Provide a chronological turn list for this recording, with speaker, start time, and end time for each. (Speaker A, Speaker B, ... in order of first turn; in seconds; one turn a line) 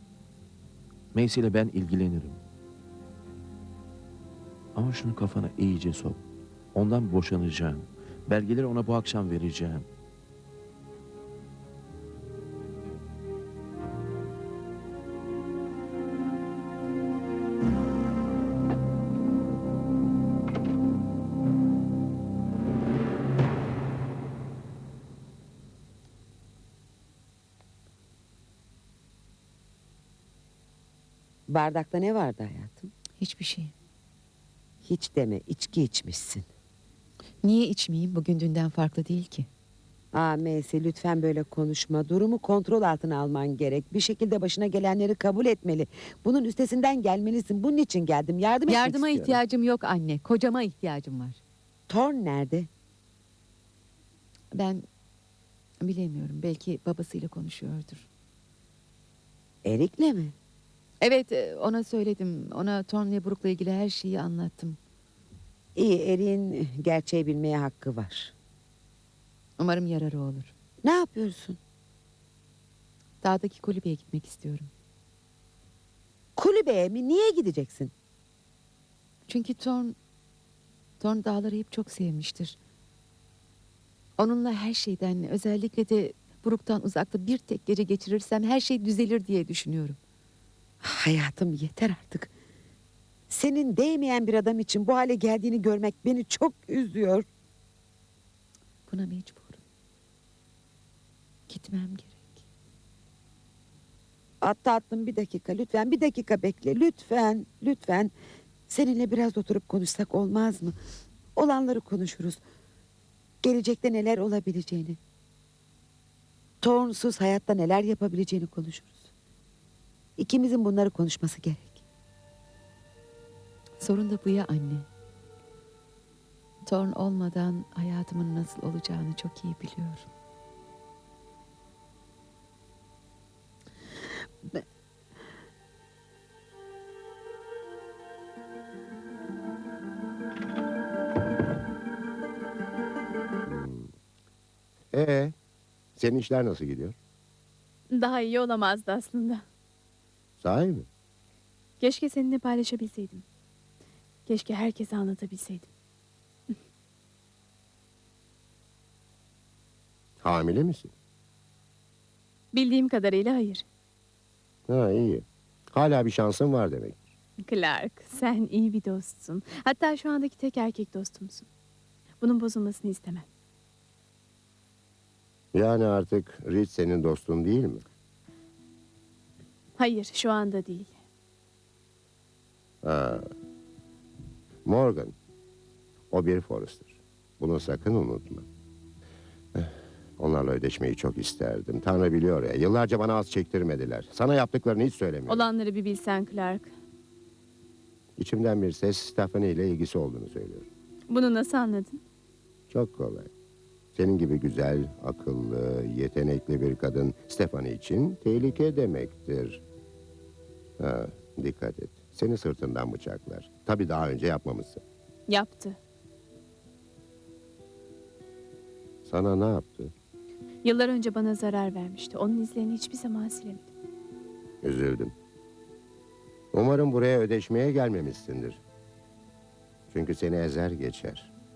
Speaker A: 1.1-2.4
Speaker A: 4.8-6.2
Speaker A: 6.7-9.8
Speaker B: 31.5-32.9
Speaker C: 33.2-33.7
Speaker B: 34.8-36.5
Speaker C: 37.4-39.5
Speaker B: 40.1-49.4
Speaker C: 48.7-51.4
Speaker B: 51.9-52.7
Speaker C: 54.5-54.8
Speaker C: 55.8-58.1
Speaker B: 59.6-60.3
Speaker C: 61.0-64.8
Speaker B: 65.8-68.3
Speaker C: 69.6-70.5
Speaker B: 70.8-71.6
Speaker C: 73.2-74.7
Speaker B: 76.4-77.9
Speaker C: 79.3-79.9
Speaker C: 81.0-82.6
Speaker C: 84.2-90.0
Speaker B: 90.8-92.3
Speaker B: 93.3-97.2
Speaker C: 98.9-99.6
Speaker C: 101.5-102.3
Speaker B: 104.4-108.1
Speaker B: 108.7-110.8
Speaker B: 111.3-112.4
Speaker B: 113.4-115.0
Speaker B: 116.6-119.0
Speaker B: 120.2-121.8
Speaker C: 123.8-124.8
Speaker C: 126.7-130.1
Speaker D: 143.4-143.9
Speaker D: 144.9-145.3
Speaker D: 146.0-146.9
Speaker E: 147.9-149.4
Speaker D: 150.4-150.8
Speaker E: 151.8-153.2
Speaker E: 154.3-155.7
Speaker D: 160.2-160.9
Speaker E: 162.5-163.6
Speaker D: 164.7-167.0
Speaker E: 167.4-171.5
Speaker E: 172.2-173.2
Speaker D: 175.5-177.8
Speaker E: 179.8-180.9
Speaker D: 182.8-183.2
Speaker D: 184.7-185.1
Speaker D: 186.1-188.5
Speaker D: 189.5-195.4
Speaker E: 195.3-196.7
Speaker D: 198.2-200.7
Speaker E: 201.1-202.0
Speaker D: 202.7-203.3
Speaker D: 203.9-209.6
Speaker D: 210.8-214.8
Speaker E: 215.3-215.8
Speaker D: 219.1-219.9
Speaker E: 220.6-223.7
Speaker D: 224.6-225.1
Speaker D: 226.5-228.6
Speaker D: 229.9-231.3